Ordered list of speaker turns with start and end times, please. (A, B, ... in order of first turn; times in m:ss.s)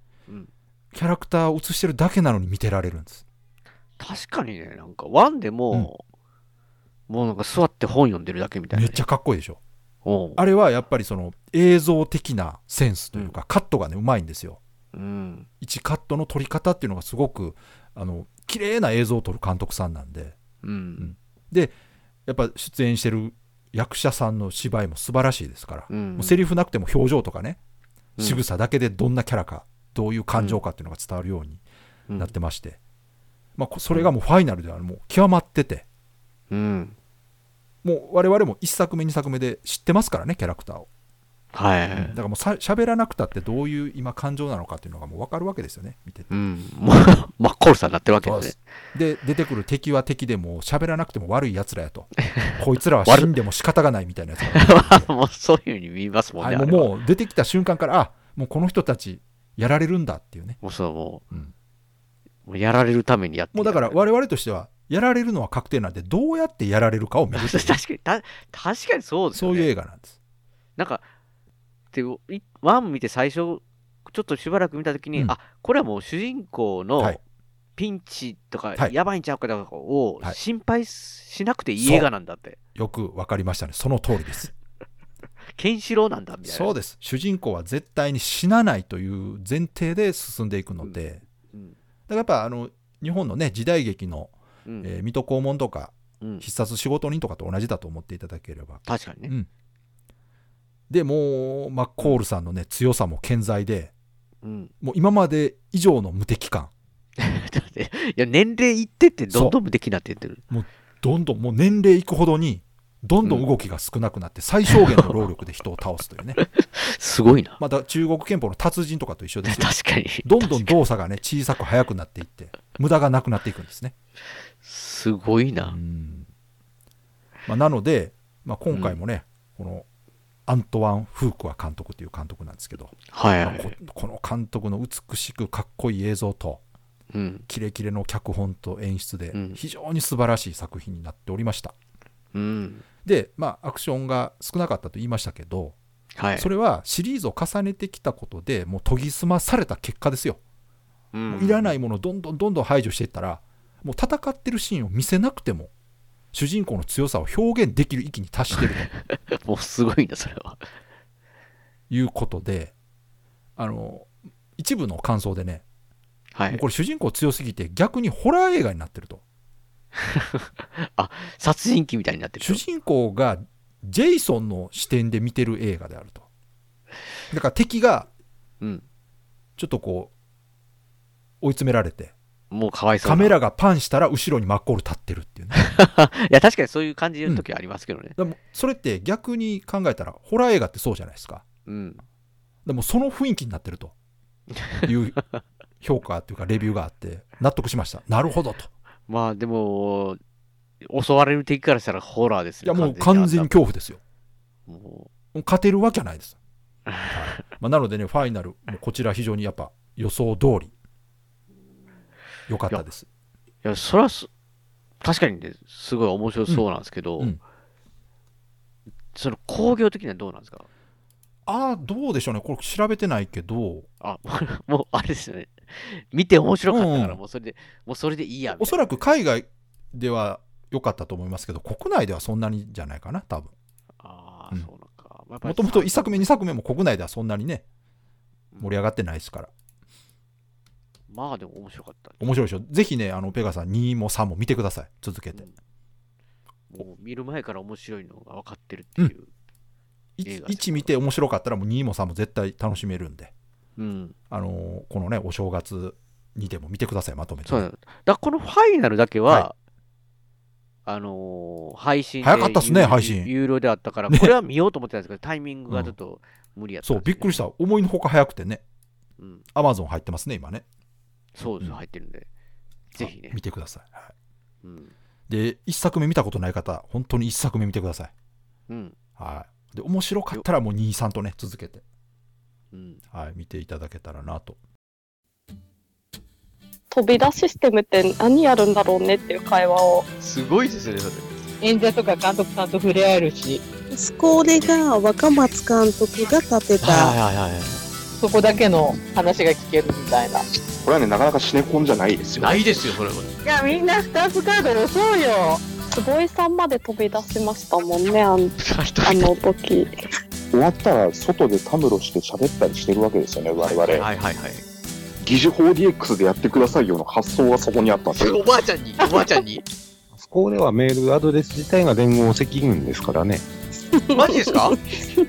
0:00.9-0:03.2 A
0:04.0-0:06.0 B
0:07.1-0:09.0 B
0:08.7-0:09.6 A
0:10.0-0:10.4 B
0:10.4-0:14.6 A
0:14.9-0:15.5 B
0:15.6-0:20.4 A
0:20.6-0:21.1 B
0:21.0-0:21.7 A
0:22.2-0:27.6 A
0:25.9-0:26.5 B
0:28.2-0:31.6 A
0:30.4-0:30.6 B
0:32.2-0:32.8 A
0:33.6-0:35.8 A
0:36.5-0:36.9 B
0:37.8-0:40.9 A
0:41.5-0:42.2 B
0:41.9-0:46.3 A
0:46.3-0:48.6 B
0:48.2-0:55.1 A
0:52.2-0:53.3 B
0:54.5-0:56.9 B
0:56.4-1:00.6 A
1:00.6-1:01.2 B
1:02.4-1:04.0 B
1:03.5-1:07.8 A
1:07.3-1:09.7 B
1:09.3-1:10.2 A
1:10.8-1:11.0 B
1:11.9-1:17.2 B
1:17.8-1:22.6 B
1:21.8-1:22.1 A
1:22.7-1:24.5 A
1:25.6-1:26.7 B
1:26.4-1:31.2 A
1:32.1-1:39.5 A
1:38.8-1:39.3 B
1:40.9-1:43.9 A
1:44.4-1:44.7 B
1:44.8-1:46.7 A
1:47.2-1:50.4 B
1:49.3-1:49.6 A
1:50.5-1:56.4 A
1:54.7-1:55.2 B
1:56.4-1:57.6 B
1:57.6-1:59.7 A
1:59.4-2:00.8 B
2:00.2-2:03.9 A
2:04.6-2:05.8 B
2:05.6-2:06.3 A
2:07.4-2:09.8 A
2:08.7-2:09.0 B
2:10.5-2:16.6 A
2:13.1-2:13.8 B
2:17.1-2:17.4 B
2:17.5-2:21.7 A
2:19.3-2:19.6 B
2:22.3-2:22.8 B
2:23.0-2:25.8 A
2:26.2-2:26.5 B
2:26.3-2:30.4 A
2:31.1-2:31.8 B
2:31.3-2:35.7 A
2:36.3-2:38.9 A
2:38.5-2:40.6 B
2:41.9-2:42.7 A
2:43.6-2:45.6 A
2:46.3-2:46.6 B
2:46.5-2:49.2 A
2:50.0-2:52.6 B
2:52.4-2:56.2 A
2:57.3-2:58.1 A
2:59.6-3:00.1 A
3:01.4-3:02.1 A
3:02.5-3:03.4 B
3:03.0-3:05.6 A
3:05.5-3:08.2 B
3:08.2-3:11.4 A
3:11.6-3:12.0 B
3:12.6-3:13.9 A
3:14.6-3:15.4 B
3:14.8-3:15.2 A
3:15.8-3:18.7 A
3:19.1-3:20.2 B
3:20.8-3:23.5 B
3:22.6-3:24.0 A
3:24.7-3:25.1 B
3:25.3-3:26.4 A
3:26.9-3:27.4 B
3:27.1-3:30.7 A
3:32.5-3:33.1 A
3:33.6-3:34.3 B
3:35.0-3:37.4 B
3:39.1-3:40.6 B
3:41.4-3:43.9 A
3:44.0-3:49.0 B
3:46.7-3:47.2 A
3:48.5-3:53.5 A
3:54.0-3:56.3 B
3:55.4-3:57.6 A
3:58.6-3:59.5 A
4:01.1-4:02.2 B
4:02.2-4:05.4 A
4:06.7-4:09.3 B
4:10.2-4:13.3 A
4:10.2-4:10.9 B
4:13.8-4:14.2 B
4:14.3-4:17.7 A
4:17.4-4:19.5 B
4:20.8-4:27.4 B
4:22.2-4:23.3 A
4:26.8-4:28.6 A
4:29.2-4:29.4 B
4:29.5-4:30.6 A
4:31.4-4:32.2 B
4:32.9-4:34.1 A
4:33.0-4:33.4 B
4:34.6-4:34.9 B
4:35.3-4:38.1 A
4:38.7-4:39.0 B
4:39.2-4:41.8 A
4:42.7-4:43.0 B
4:43.1-4:44.6 A
4:46.9-4:50.1 C
4:50.2-4:51.3 B
4:51.6-4:53.6 D
4:53.9-4:57.1 E
4:56.8-4:57.8 B
4:58.2-5:00.4 D
5:00.8-5:03.0 F
5:02.4-5:03.3 B
5:03.4-5:05.7 D
5:05.9-5:09.9 C
5:08.6-5:09.4 B
5:10.5-5:14.0 F
5:13.6-5:14.6 B
5:15.2-5:18.4 F
5:18.2-5:19.6 B
5:20.1-5:23.4 G
5:24.1-5:24.7 B